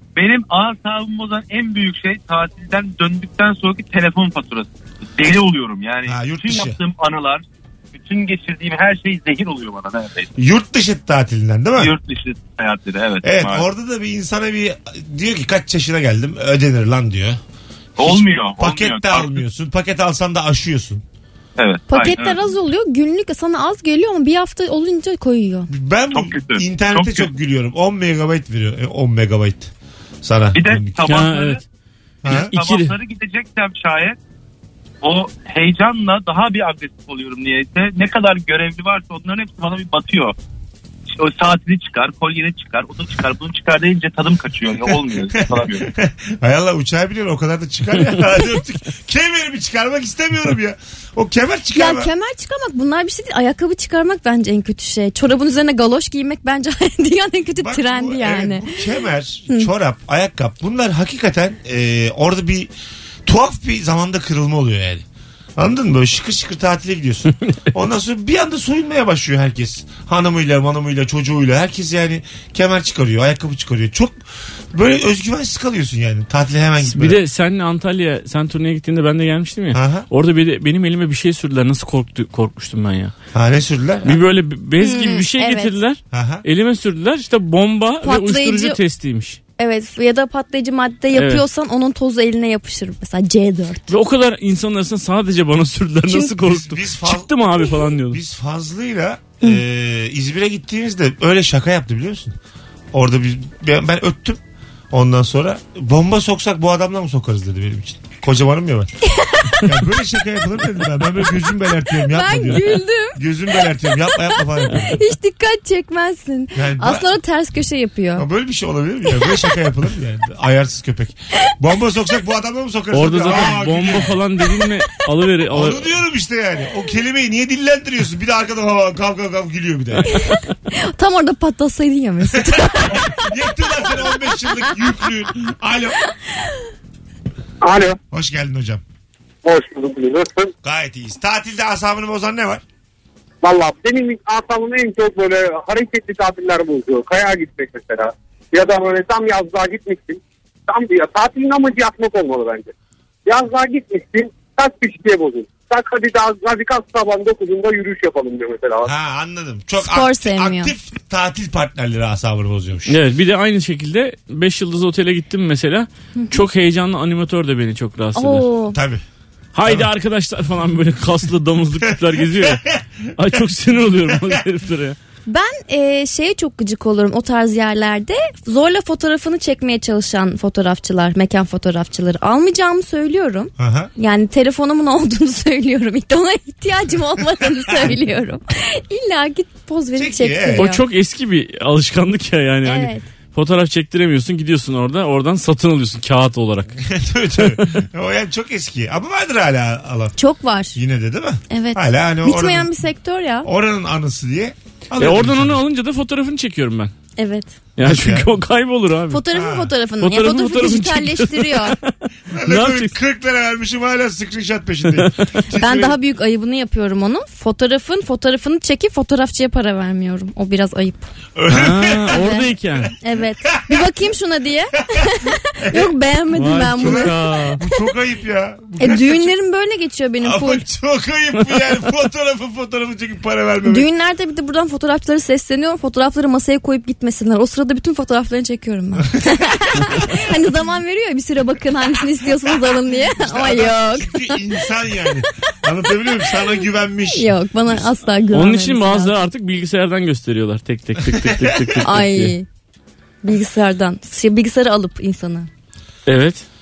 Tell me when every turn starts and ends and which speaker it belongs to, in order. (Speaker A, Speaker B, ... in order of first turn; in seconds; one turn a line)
Speaker A: 0.2-10.3
Speaker B: 6.1-6.8
Speaker B: 10.4-11.9
Speaker A: 11.8-13.7
Speaker B: 13.2-17.4
Speaker A: 18.0-19.4
Speaker B: 18.0-21.0
Speaker A: 21.6-22.4
Speaker C: 21.9-25.7
Speaker B: 25.7-29.7
Speaker A: 26.1-27.3
Speaker B: 30.2-31.0
Speaker A: 30.5-31.6
Speaker D: 31.0-31.6
Speaker B: 32.2-32.5
Speaker A: 32.3-34.2
Speaker D: 32.3-32.9
Speaker A: 35.0-40.4
Speaker A: 41.1-45.9
Speaker B: 45.4-52.1
Speaker C: 51.7-58.8
Speaker B: 57.6-62.7
Speaker B: 63.3-65.0
Speaker B: 65.6-74.2
Speaker B: 74.7-77.2
Speaker D: 76.8-83.1
Speaker B: 79.7-80.1
Speaker B: 83.3-84.2
Speaker D: 84.0-89.4
Speaker C: 84.8-85.7
Speaker B: 86.1-86.5
Speaker C: 88.0-88.8
Speaker C: 89.6-93.9
Speaker D: 91.1-91.4
Speaker D: 93.9-98.2
Speaker B: 96.4-97.3
Speaker B: 98.1-102.4
Speaker B: 102.9-104.4
Speaker B: 104.9-108.9
Speaker C: 109.1-109.7
Speaker B: 109.6-115.0
Speaker C: 112.0-118.3
Speaker B: 116.5-117.1
Speaker B: 118.2-124.2
Speaker D: 122.9-125.9
Speaker B: 125.5-130.1
Speaker C: 130.1-133.3
Speaker B: 132.4-136.0
Speaker E: 137.6-138.0
Speaker B: 138.1-138.8
Speaker E: 139.4-140.5
Speaker B: 140.6-142.6
Speaker E: 143.4-152.7
Speaker E: 153.3-158.9
Speaker B: 158.8-163.0
Speaker C: 159.8-160.7
Speaker D: 162.9-168.5
Speaker C: 168.2-168.8
Speaker B: 168.7-169.0
Speaker D: 169.5-172.6
Speaker B: 172.4-172.8
Speaker D: 173.2-175.0
Speaker B: 174.1-174.4
Speaker C: 175.3-190.8
Speaker B: 183.6-183.9
Speaker B: 190.0-190.7
Speaker D: 190.6-196.8
Speaker C: 192.7-193.0
Speaker B: 196.8-200.2
Speaker D: 197.4-197.8
Speaker C: 200.2-200.8
Speaker B: 200.8-202.7
Speaker C: 201.5-203.5
Speaker B: 203.4-205.6
Speaker D: 205.0-206.9
Speaker C: 207.2-207.5
Speaker D: 207.8-209.2
Speaker B: 207.8-208.3
Speaker C: 209.1-211.8
Speaker B: 209.3-209.7
Speaker D: 210.0-211.9
Speaker B: 212.3-215.9
Speaker D: 212.5-212.9
Speaker D: 214.9-215.3
Speaker C: 215.5-221.1
Speaker B: 221.4-222.2
Speaker D: 221.5-222.9
Speaker C: 222.1-227.2
Speaker B: 223.5-223.8
Speaker B: 225.6-225.9
Speaker D: 226.3-227.6
Speaker B: 226.7-229.3
Speaker C: 228.8-230.7
Speaker B: 230.2-233.9
Speaker C: 233.7-244.4
Speaker B: 242.5-247.8
Speaker C: 247.1-249.1
Speaker D: 248.3-252.3
Speaker B: 251.1-251.8
Speaker C: 251.8-252.5
Speaker C: 253.2-255.5
Speaker D: 256.1-256.4